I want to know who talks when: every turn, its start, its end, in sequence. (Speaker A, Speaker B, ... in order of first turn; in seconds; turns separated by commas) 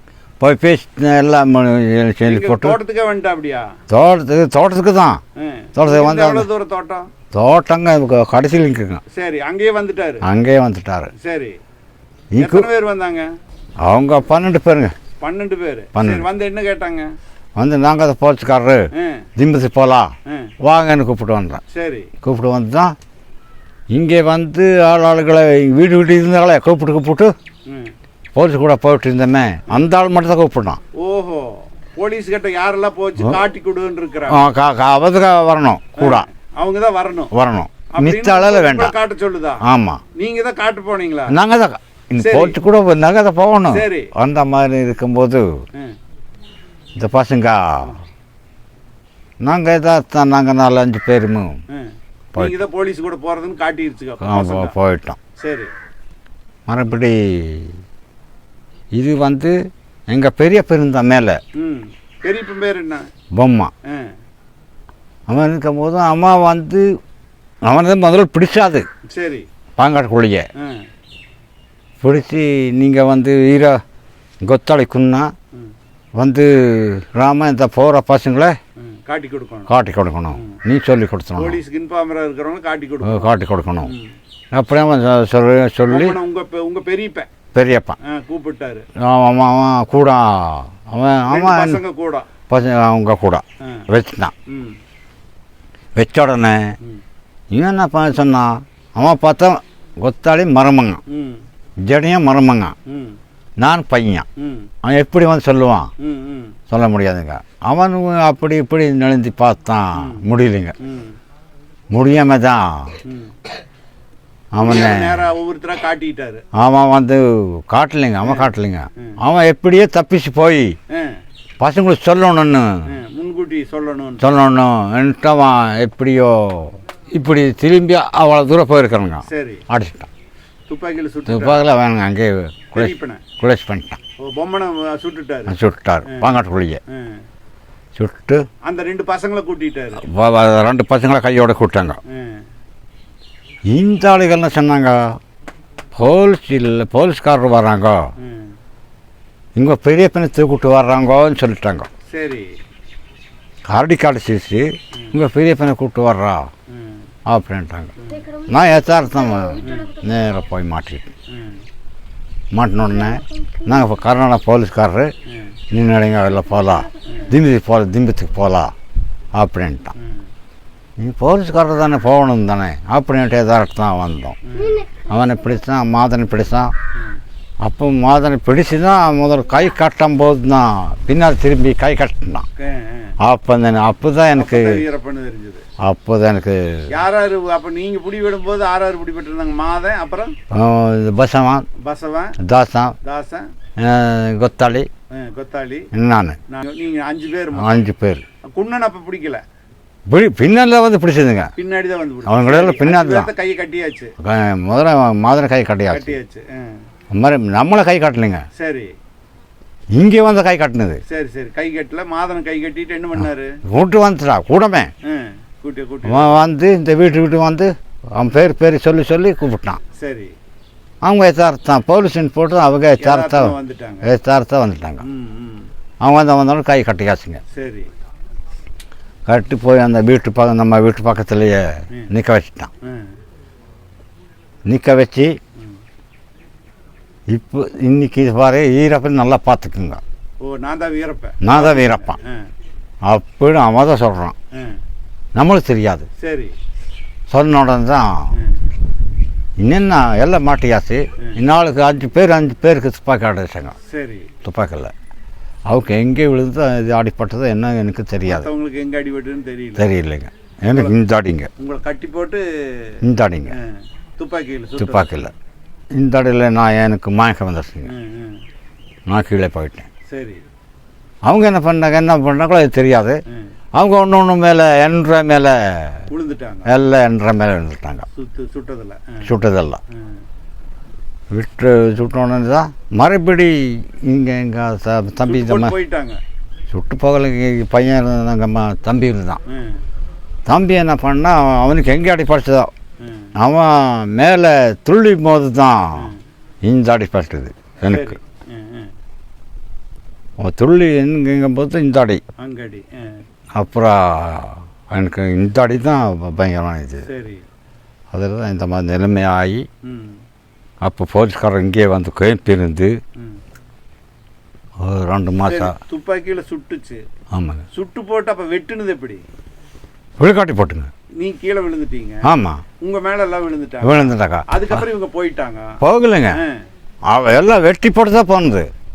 Speaker A: 0.4-2.8, Speaker B: 2.3-3.7, Speaker A: 3.9-5.2, Speaker B: 5.4-7.1, Speaker A: 5.8-6.5, Speaker A: 7.3-9.0, Speaker B: 9.1-10.2, Speaker A: 10.2-11.1, Speaker B: 11.2-11.6, Speaker A: 12.3-12.7, Speaker B: 12.4-13.3, Speaker A: 13.8-14.9, Speaker B: 15.2-17.1, Speaker A: 15.9-16.3, Speaker A: 17.6-18.9, Speaker B: 18.9-19.3, Speaker A: 19.4-21.6, Speaker B: 20.3-20.5, Speaker B: 21.7-22.1, Speaker A: 22.2-22.9, Speaker A: 23.9-27.3, Speaker B: 27.7-27.9, Speaker A: 28.4-30.8, Speaker B: 30.9-34.4, Speaker A: 34.3-36.3, Speaker B: 36.0-37.3, Speaker A: 37.3-39.0, Speaker B: 37.9-39.6, Speaker A: 39.6-40.0, Speaker B: 40.1-41.4, Speaker A: 41.3-45.5, Speaker B: 42.2-42.6, Speaker B: 43.7-44.1, Speaker A: 47.0-47.9, Speaker A: 49.4-51.6, Speaker B: 51.7-54.7, Speaker A: 54.2-55.2, Speaker B: 55.4-55.7, Speaker A: 56.7-57.7, Speaker A: 59.0-59.6, Speaker A: 60.1-61.4, Speaker B: 61.6-63.1, Speaker A: 63.4-63.7, Speaker B: 63.9-64.1, Speaker A: 65.3-66.9, Speaker A: 67.7-68.9, Speaker B: 69.1-69.5, Speaker A: 69.8-70.5, Speaker B: 70.6-70.9, Speaker A: 72.0-73.8, Speaker A: 74.4-75.3, Speaker A: 76.2-78.6, Speaker B: 78.8-79.7, Speaker A: 79.7-81.6, Speaker B: 81.4-83.3, Speaker A: 83.0-83.9, Speaker B: 83.8-84.1, Speaker A: 84.5-86.2, Speaker B: 85.9-87.3, Speaker A: 87.5-88.0, Speaker B: 88.0-88.8, Speaker A: 89.0-91.8, Speaker B: 91.3-92.3, Speaker A: 92.5-94.3, Speaker B: 94.5-94.8, Speaker A: 96.0-96.8, Speaker A: 97.5-101.0, Speaker B: 101.1-101.4, Speaker A: 101.8-102.8, Speaker B: 102.9-103.2, Speaker A: 103.6-104.3, Speaker B: 104.4-104.7, Speaker A: 104.8-105.9, Speaker B: 106.0-106.6, Speaker A: 106.7-110.7, Speaker B: 110.0-110.2, Speaker B: 110.8-111.2, Speaker A: 111.9-112.9, Speaker B: 113.0-113.3, Speaker A: 114.5-115.2, Speaker B: 114.6-116.4, Speaker A: 116.5-120.8, Speaker B: 120.9-121.2, Speaker A: 121.6-122.8, Speaker B: 122.9-124.2, Speaker A: 124.2-130.1, Speaker B: 129.3-129.6, Speaker B: 130.7-131.6, Speaker A: 131.3-134.0, Speaker B: 132.7-133.2, Speaker B: 134.2-135.5, Speaker A: 135.5-136.8, Speaker B: 136.9-137.2, Speaker A: 138.0-138.4, Speaker B: 138.7-140.1, Speaker A: 140.0-142.0, Speaker B: 142.1-142.4, Speaker A: 143.7-145.0, Speaker A: 146.0-148.1, Speaker B: 148.2-148.5, Speaker A: 149.6-151.9, Speaker B: 152.1-152.5, Speaker A: 153.7-156.5, Speaker B: 156.7-157.0, Speaker A: 157.3-161.1, Speaker B: 159.6-159.9, Speaker B: 161.3-161.6, Speaker A: 162.5-165.1, Speaker A: 165.7-168.7, Speaker A: 169.3-169.9, Speaker A: 171.0-176.7, Speaker B: 174.5-174.8, Speaker A: 177.6-182.4, Speaker B: 182.6-183.1, Speaker A: 183.2-184.8, Speaker B: 184.4-185.6, Speaker A: 185.8-186.9, Speaker B: 186.9-190.3, Speaker A: 190.5-191.7, Speaker B: 191.8-192.4, Speaker A: 192.4-192.9, Speaker B: 193.0-193.5, Speaker A: 193.8-194.9, Speaker B: 195.1-195.9, Speaker A: 195.9-196.4, Speaker B: 196.5-197.8, Speaker A: 197.6-198.2, Speaker B: 198.6-199.4, Speaker A: 200.1-201.5, Speaker B: 201.6-204.1, Speaker A: 202.3-203.3, Speaker A: 204.2-206.1, Speaker B: 205.9-206.8, Speaker A: 207.1-208.4, Speaker B: 208.6-208.9, Speaker A: 209.9-211.0, Speaker B: 211.1-213.6, Speaker A: 213.7-214.9, Speaker B: 215.0-216.4, Speaker A: 216.1-219.8, Speaker B: 219.9-220.3, Speaker A: 221.0-225.0, Speaker B: 223.0-224.1, Speaker B: 225.0-225.7, Speaker A: 226.0-227.4, Speaker B: 227.5-227.9, Speaker A: 229.3-232.7, Speaker B: 232.8-233.1, Speaker A: 234.7-235.4, Speaker A: 237.3-240.0, Speaker B: 240.4-242.4, Speaker A: 241.4-242.2, Speaker A: 243.1-244.3, Speaker B: 244.5-244.8, Speaker A: 245.3-246.1, Speaker B: 246.2-246.5, Speaker A: 247.3-248.3, Speaker A: 249.6-253.7, Speaker B: 253.9-254.3, Speaker A: 254.4-254.9, Speaker A: 255.7-258.5, Speaker B: 258.3-259.9, Speaker A: 259.8-261.5, Speaker B: 260.7-260.9, Speaker B: 261.6-263.0, Speaker A: 263.0-263.5, Speaker B: 263.5-265.1, Speaker A: 264.8-265.3, Speaker A: 266.0-267.9, Speaker B: 267.9-268.4, Speaker A: 269.1-269.9, Speaker B: 270.1-270.4, Speaker A: 271.2-273.2, Speaker A: 273.8-276.0, Speaker B: 276.1-276.7, Speaker A: 276.7-278.1, Speaker B: 278.1-279.3, Speaker A: 279.2-279.8, Speaker A: 281.3-285.7, Speaker B: 285.2-286.2, Speaker A: 286.7-289.4, Speaker B: 289.5-289.8, Speaker A: 290.5-292.7, Speaker B: 293.0-293.3, Speaker A: 293.4-296.1, Speaker A: 296.6-298.2, Speaker B: 297.9-298.9, Speaker A: 300.4-302.2, Speaker B: 302.4-303.2, Speaker A: 303.6-307.1, Speaker B: 307.1-307.4, Speaker A: 308.1-309.6, Speaker B: 309.8-310.2, Speaker A: 310.8-312.9, Speaker A: 314.8-315.7, Speaker B: 315.5-317.0, Speaker A: 317.3-317.6, Speaker B: 317.7-319.2, Speaker A: 320.2-320.9, Speaker B: 321.2-322.3, Speaker A: 322.2-322.6, Speaker B: 322.8-325.8, Speaker A: 323.8-324.8, Speaker A: 325.8-326.4, Speaker B: 326.3-326.6, Speaker A: 327.1-328.7